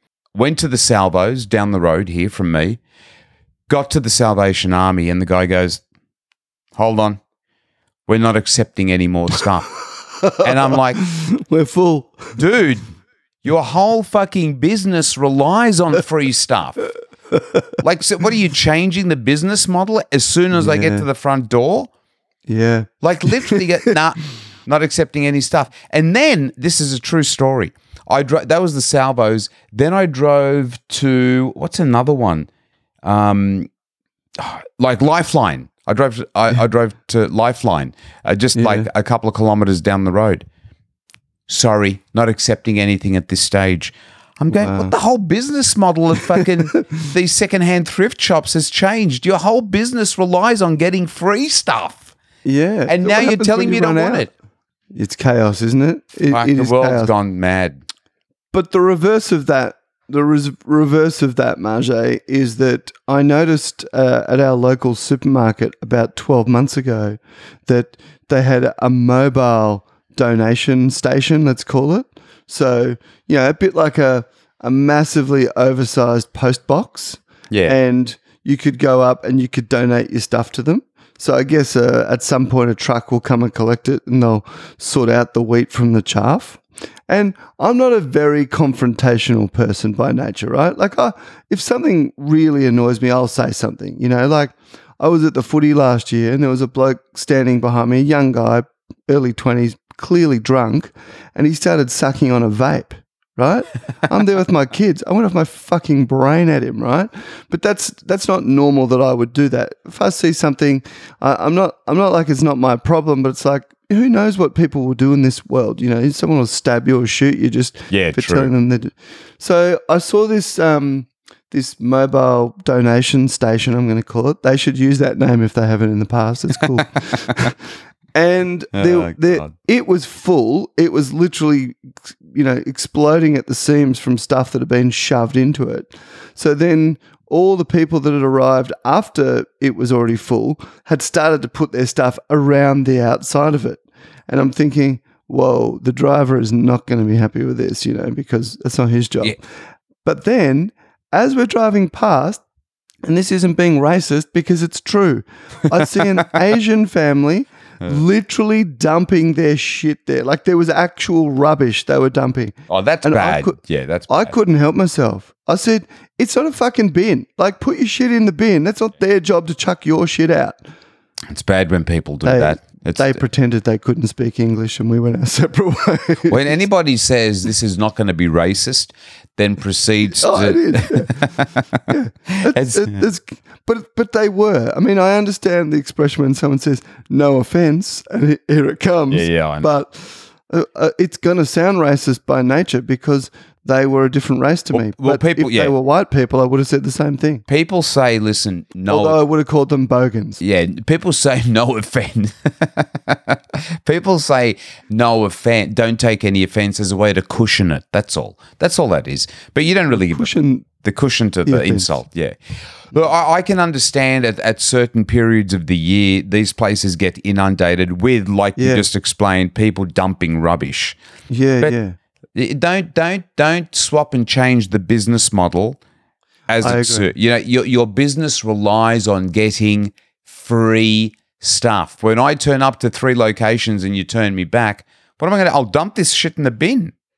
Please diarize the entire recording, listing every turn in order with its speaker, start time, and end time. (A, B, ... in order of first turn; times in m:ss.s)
0:00.3-0:02.8 A
0:03.7-0:05.8 A
0:06.7-0:07.2 A
0:08.0-0:09.7 A
0:10.2-0:12.4 B
0:10.4-0:11.0 A
0:12.4-0:12.9 A
0:13.4-0:16.8 A
0:17.3-0:17.7 B
0:17.8-0:21.9 A
0:20.5-0:21.0 B
0:22.5-0:23.9 B
0:23.0-0:32.5 A
0:33.0-0:33.7 A
0:34.4-0:40.4 A
0:38.5-0:38.9 B
0:41.5-0:52.1 A
0:44.5-0:44.9 B
0:46.4-0:47.1 B
0:52.4-0:54.3 B
0:52.9-0:54.3 A
0:54.9-0:57.1 B
0:56.3-0:57.8 A
0:58.5-2:07.6 B
1:17.5-1:17.8 A
1:57.9-1:58.5 A
2:08.1-2:29.4 B
2:08.7-2:09.5 A
2:30.0-2:32.4 B
2:33.0-2:43.6 B
2:35.8-2:36.2 A
2:42.7-2:44.3 A
2:44.1-2:50.6 B
2:51.3-2:53.2 A
2:52.2-2:56.5 B
2:56.3-3:01.8 A
3:00.2-3:17.4 B
3:02.4-3:03.0 A
3:09.1-3:09.7 A
3:14.7-3:15.7 A
3:17.5-3:19.2 A
3:18.9-3:20.4 B
3:20.4-3:32.4 A
3:29.9-3:30.7 B
3:31.4-3:31.9 B
3:32.9-3:41.0 A
3:38.6-3:38.8 B
3:41.3-3:42.0 B
3:42.3-3:45.8 A
3:46.5-3:56.9 A
3:46.6-3:47.1 B